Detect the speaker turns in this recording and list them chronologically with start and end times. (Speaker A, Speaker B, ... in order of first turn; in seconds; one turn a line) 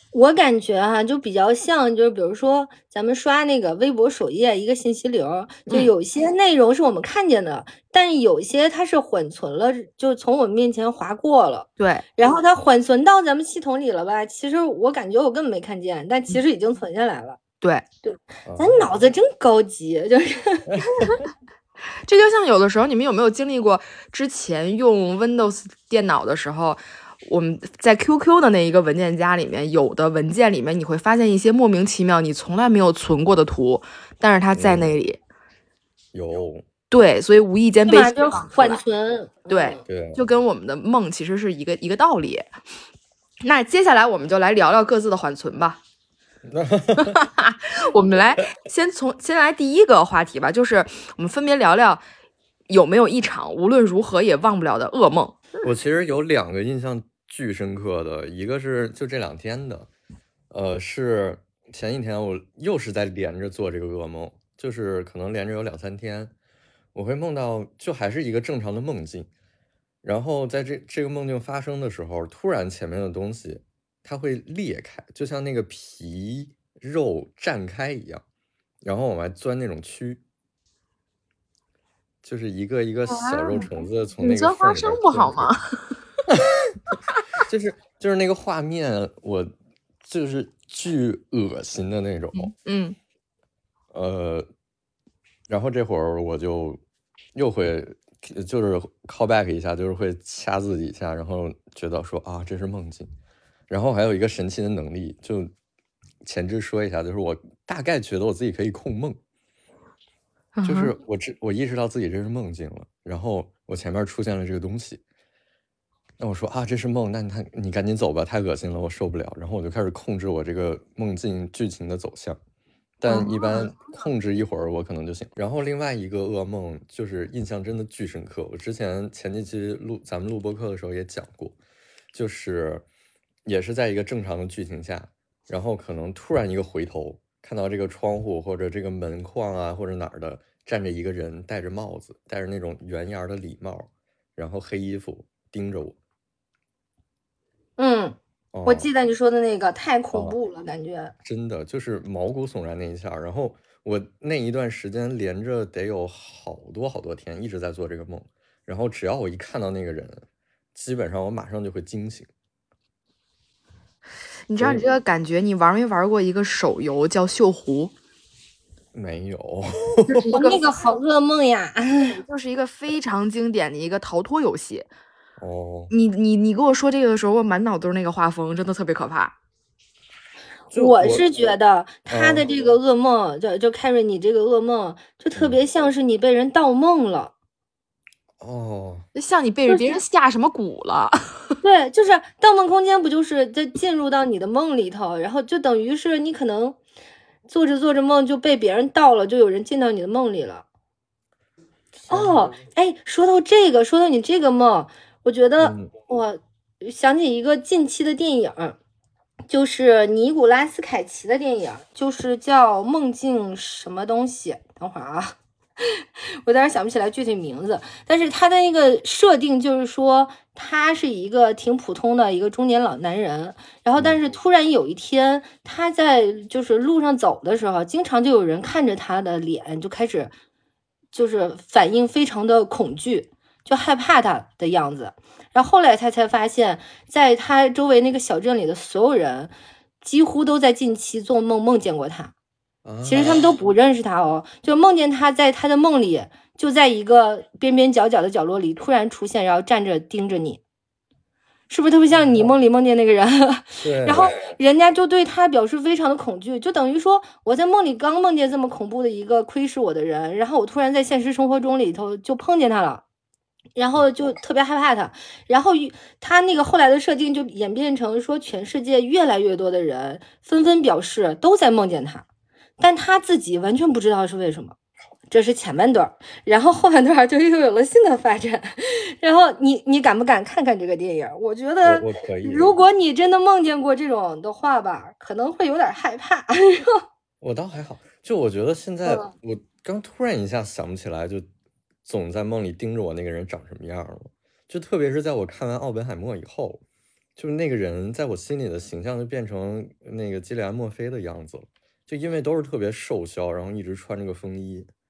Speaker A: 0.1-17.4
Speaker B: 11.8-12.0
Speaker A: 18.0-20.7
Speaker C: 18.4-18.9
Speaker B: 20.9-21.2
Speaker B: 22.1-35.2
Speaker C: 34.5-34.9
Speaker C: 36.1-36.6
Speaker B: 36.9-38.8
Speaker A: 37.9-39.8
Speaker B: 39.5-42.5
Speaker C: 39.9-40.2
Speaker B: 43.4-45.8
Speaker C: 46.4-47.2
Speaker B: 47.0-52.0
Speaker B: 52.7-55.4
Speaker C: 55.6-59.9
Speaker C: 60.5-66.3
Speaker C: 66.9-69.3
Speaker C: 70.0-78.2
Speaker C: 78.8-80.2
Speaker C: 82.2-85.5
Speaker B: 83.1-83.7
Speaker B: 84.2-85.9
Speaker C: 87.5-89.5
Speaker C: 90.0-92.5
Speaker B: 92.3-93.0
Speaker C: 93.9-94.5
Speaker C: 95.5-96.8
Speaker C: 97.3-103.1
Speaker C: 103.7-105.5
Speaker C: 106.2-109.2
Speaker B: 110.5-110.9
Speaker C: 110.6-115.0
Speaker C: 116.2-122.4
Speaker C: 123.0-131.6
Speaker B: 123.1-123.7
Speaker C: 132.1-132.8
Speaker C: 133.4-146.0
Speaker A: 147.8-151.1
Speaker C: 148.5-148.9
Speaker C: 151.2-162.3
Speaker B: 164.5-167.9
Speaker C: 164.6-164.8
Speaker C: 168.9-170.2
Speaker B: 170.1-170.7
Speaker A: 170.3-172.2
Speaker B: 172.1-174.9
Speaker C: 175.4-175.9
Speaker B: 175.9-179.3
Speaker C: 180.7-181.2
Speaker A: 180.7-187.3
Speaker C: 182.1-182.4
Speaker C: 188.4-189.1
Speaker B: 189.1-191.2
Speaker A: 189.7-190.0
Speaker A: 191.6-196.8
Speaker A: 197.5-200.6
Speaker C: 202.0-202.4
Speaker A: 202.1-208.8
Speaker C: 205.6-205.9
Speaker A: 209.5-230.3
Speaker C: 223.9-224.2
Speaker A: 231.1-242.3
Speaker C: 242.8-243.5
Speaker A: 243.0-250.6
Speaker A: 251.7-263.0
Speaker C: 253.8-254.3
Speaker A: 263.8-272.2
Speaker A: 272.8-274.8
Speaker A: 275.3-287.0
Speaker C: 281.8-282.8
Speaker C: 287.4-291.4
Speaker A: 289.0-289.3
Speaker C: 292.0-296.8
Speaker C: 297.4-304.9